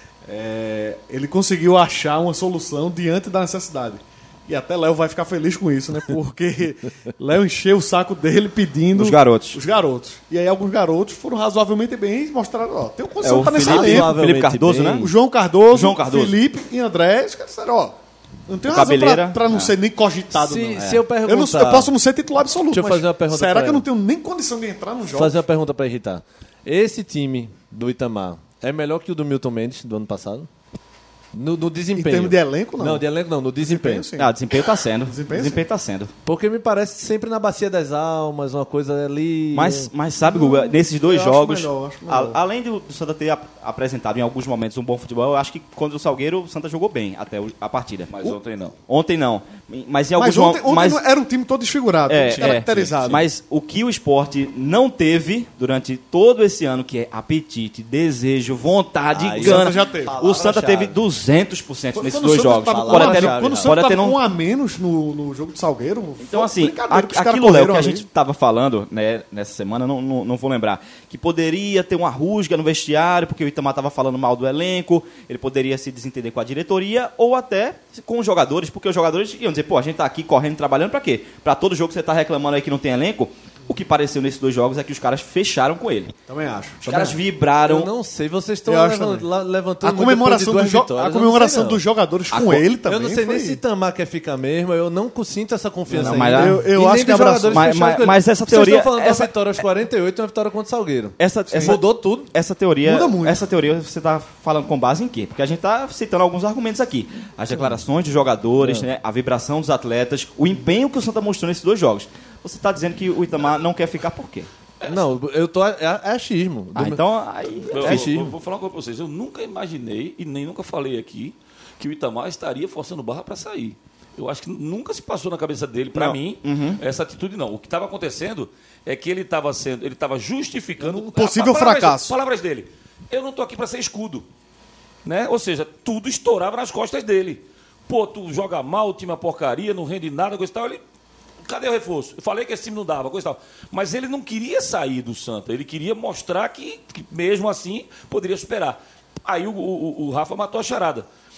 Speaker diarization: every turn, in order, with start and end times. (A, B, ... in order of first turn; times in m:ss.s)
0:00.3-0:14.2 A
0:08.9-0:09.6 B
0:13.2-0:15.1 B
0:13.5-0:15.1 C
0:15.0-0:17.9 A
0:15.7-0:16.4 B
0:18.5-0:25.4 A
0:18.7-0:19.8 B
0:20.3-0:21.9 C
0:22.7-0:23.9 C
0:25.1-0:30.5 C
0:31.3-0:34.1 C
0:32.0-0:33.1 A
0:33.6-0:34.4 A
0:34.2-0:36.1 B
0:35.1-0:35.6 A
0:36.3-0:39.9 C
0:39.5-0:48.4 B
0:40.2-0:42.4 A
0:48.1-0:48.8 D
0:48.9-0:51.0 B
0:50.2-0:53.2 A
0:52.1-1:04.2 B
0:52.4-0:53.2 D
0:59.1-1:01.0 C
0:59.4-1:00.2 A
1:01.9-1:08.0 A
1:02.7-1:03.8 C
1:06.2-1:26.1 B
1:26.3-1:27.2 A
1:26.9-1:27.9 B
1:27.6-1:31.8 C
1:28.7-1:29.3 A
1:29.8-1:33.6 A
1:32.3-1:32.7 B
1:32.8-1:42.3 C
1:35.9-1:37.8 A
1:35.9-1:36.6 B
1:37.5-1:39.6 B
1:41.2-1:54.5 B
1:41.5-1:41.8 A
1:42.8-1:43.4 A
1:48.6-1:48.9 C
1:54.8-1:57.0 C
1:56.7-1:58.1 B
1:57.7-2:14.3 D
1:57.7-1:58.3 C
2:05.9-2:06.8 B
2:10.8-2:12.2 A
2:15.0-2:20.8 D
2:21.4-2:31.1 D